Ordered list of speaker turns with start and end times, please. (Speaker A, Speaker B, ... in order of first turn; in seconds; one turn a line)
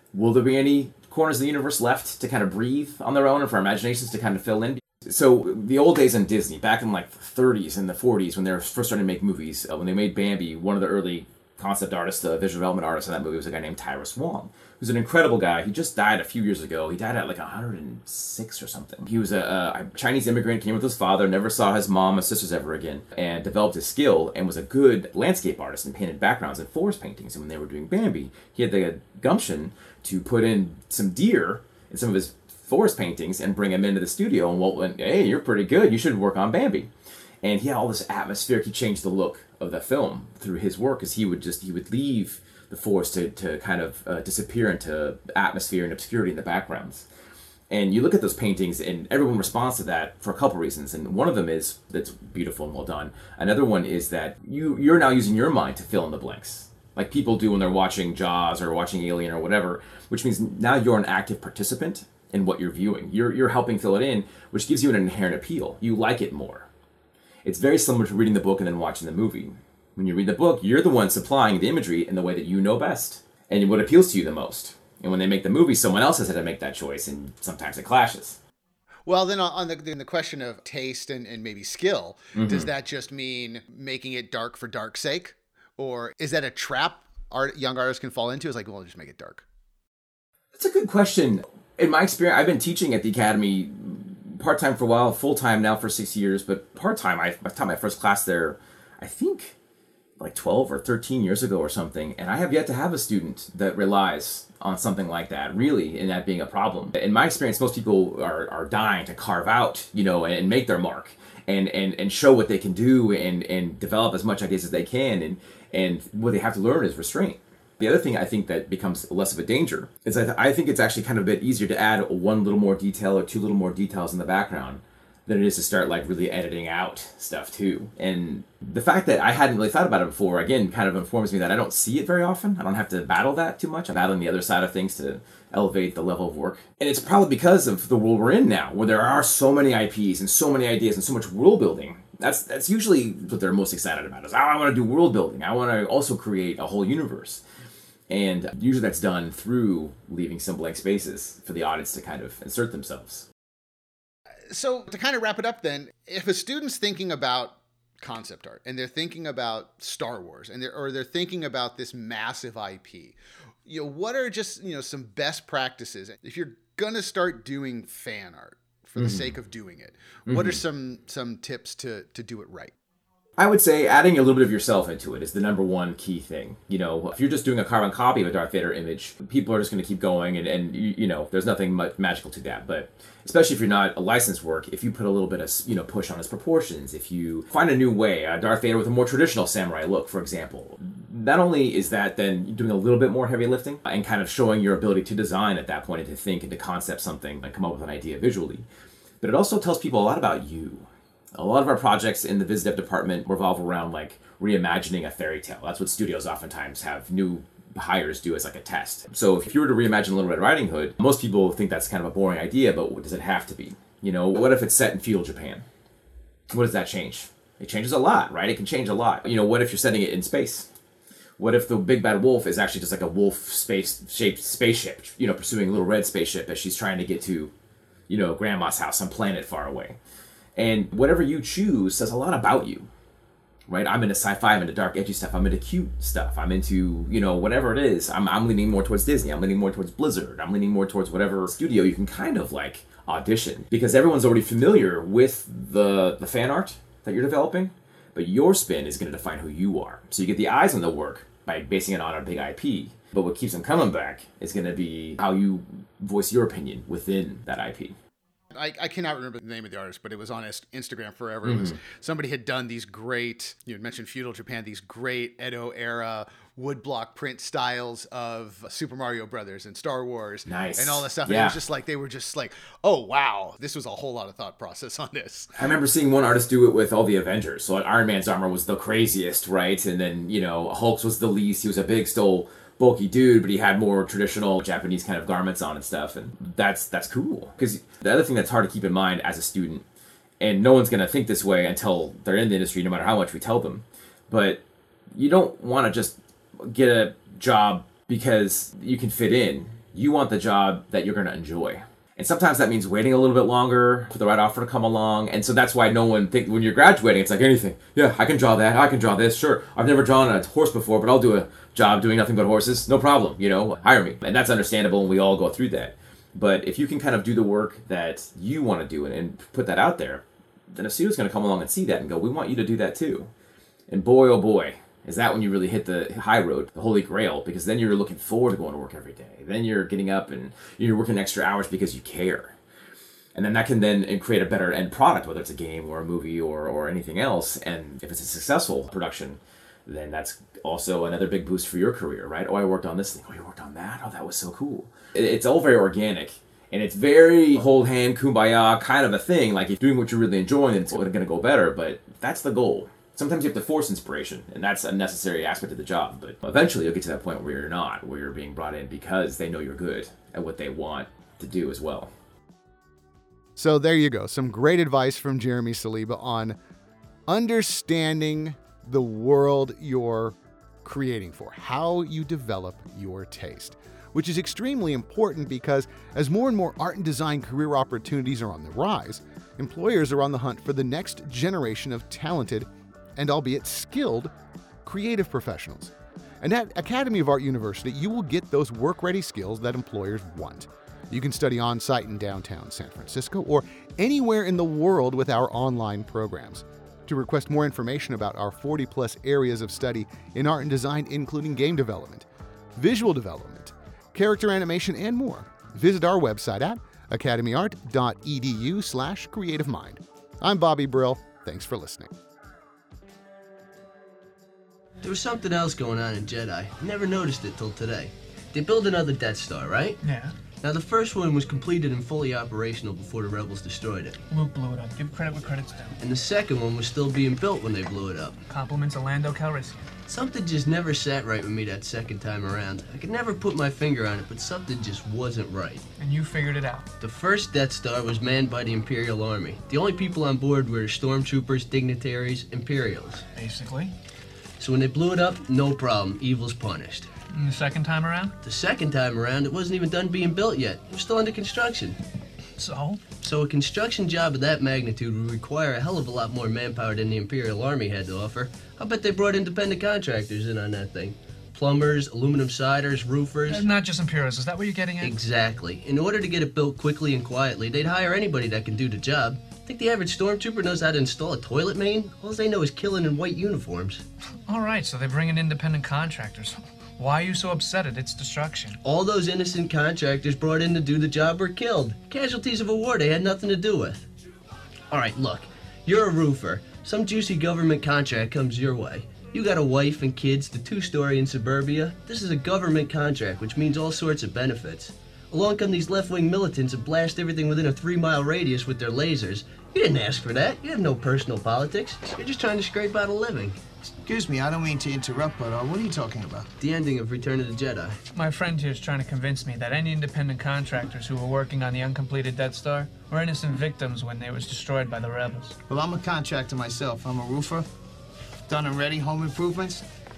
Speaker A: 0.1-36.9
Speaker A: 37.4-47.0
Speaker A: 47.7-66.7
Speaker A: 67.4-78.4
Speaker B: 79.0-89.4
Speaker A: 82.3-82.7
Speaker A: 90.5-99.5
Speaker A: 100.2-147.4
Speaker A: 148.1-153.3
Speaker B: 154.5-172.7
Speaker A: 169.0-169.3
Speaker A: 170.3-170.6
Speaker A: 173.4-198.6
Speaker A: 199.2-215.7
Speaker A: 216.5-220.7
Speaker A: 221.4-227.5
Speaker A: 228.1-230.0
Speaker A: 230.6-232.9
Speaker A: 233.7-257.9
Speaker B: 258.5-275.5
Speaker A: 261.4-261.8
Speaker A: 270.4-271.6
Speaker A: 275.5-289.8
Speaker A: 290.4-294.6
Speaker A: 295.1-323.3
Speaker A: 323.9-332.5
Speaker A: 333.3-362.1
Speaker B: 363.6-366.6
Speaker B: 367.3-384.3
Speaker B: 384.8-412.1
Speaker C: 415.0-420.0
Speaker D: 420.0-420.3
Speaker C: 420.6-424.2
Speaker D: 424.3-426.0
Speaker C: 426.0-428.4
Speaker D: 428.5-429.9
Speaker C: 430.1-435.9
Speaker D: 436.0-436.9
Speaker C: 437.0-443.2
Speaker D: 443.3-443.9
Speaker C: 444.6-447.1
Speaker D: 447.3-448.4
Speaker C: 448.4-452.0
Speaker D: 452.6-453.0
Speaker C: 453.2-463.7
Speaker D: 463.5-465.1
Speaker C: 465.0-474.0
Speaker D: 474.5-478.8
Speaker C: 478.8-484.1
Speaker C: 484.9-503.6
Speaker E: 504.0-506.5
Speaker C: 506.6-508.0
Speaker D: 508.1-515.5
Speaker E: 515.7-517.6
Speaker E: 518.5-519.8